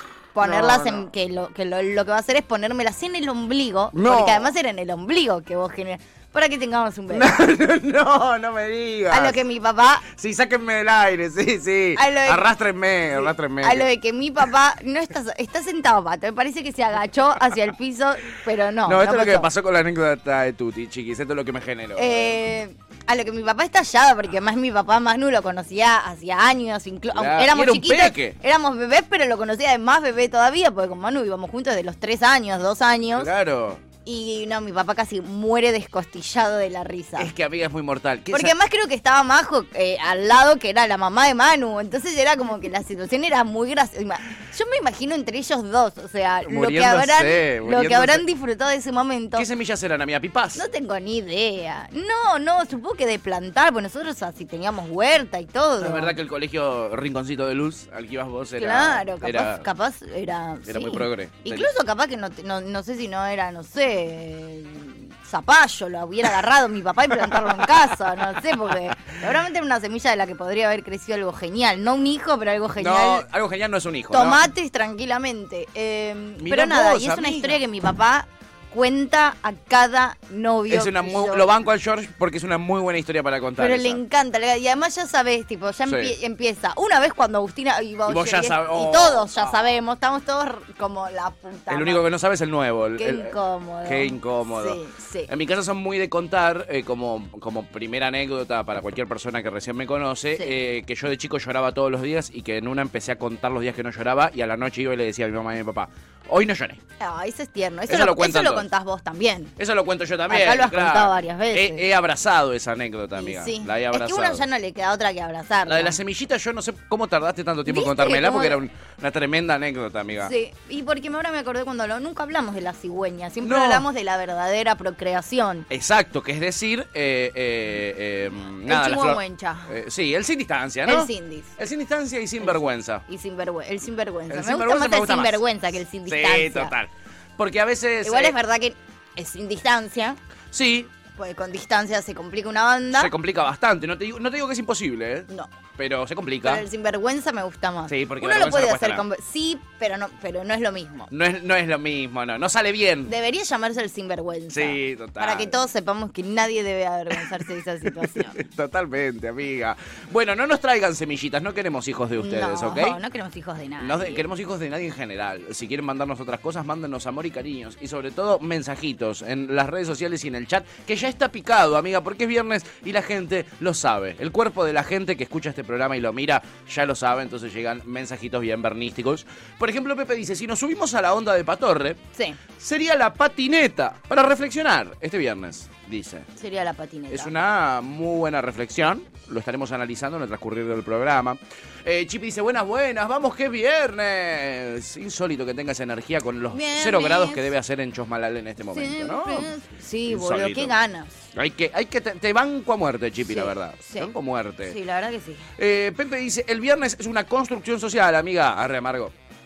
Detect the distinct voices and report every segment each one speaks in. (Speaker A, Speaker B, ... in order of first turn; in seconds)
Speaker A: 0.3-7.3, 9.1-10.0, 11.9-12.5, 13.1-19.5, 21.9-33.3, 34.0-37.3, 38.3-49.5, 50.5-56.1, 58.6-73.2, 74.1-81.5, 83.6-92.1, 93.0-95.3, 107.0-109.5, 110.3-111.9, 113.2-116.0, 117.7-118.6, 120.2-125.7, 128.7-129.7, 130.8-131.5, 132.4-136.7, 138.0-140.2, 141.1-143.1, 146.4-151.1, 153.1-158.4, 162.2-164.2, 182.1-182.4, 186.3-187.3, 196.5-197.5, 198.7-201.2, 203.2-204.1, 204.6-205.5
Speaker B: 0.4-1.1, 3.9-4.5, 7.1-9.4, 10.0-13.9, 18.8-22.4, 27.1-28.4, 33.1-33.8, 37.2-38.5, 46.4-48.2, 49.3-50.6, 55.8-59.6, 60.6-61.7, 72.8-74.5, 76.4-77.6, 80.7-84.0, 85.8-86.1, 88.0-89.7, 91.7-93.3, 93.8-106.8, 107.9-108.7, 109.6-114.4, 115.7-120.3, 123.4-123.8, 125.7-133.0, 134.3-135.4, 136.1-138.3, 140.5-140.9, 142.9-146.6, 147.8-149.1, 151.1-153.1, 154.5-155.5, 158.0-163.0, 163.8-182.0, 182.6-186.3, 187.1-199.5, 200.1-200.7, 201.3-204.8, 205.6-209.1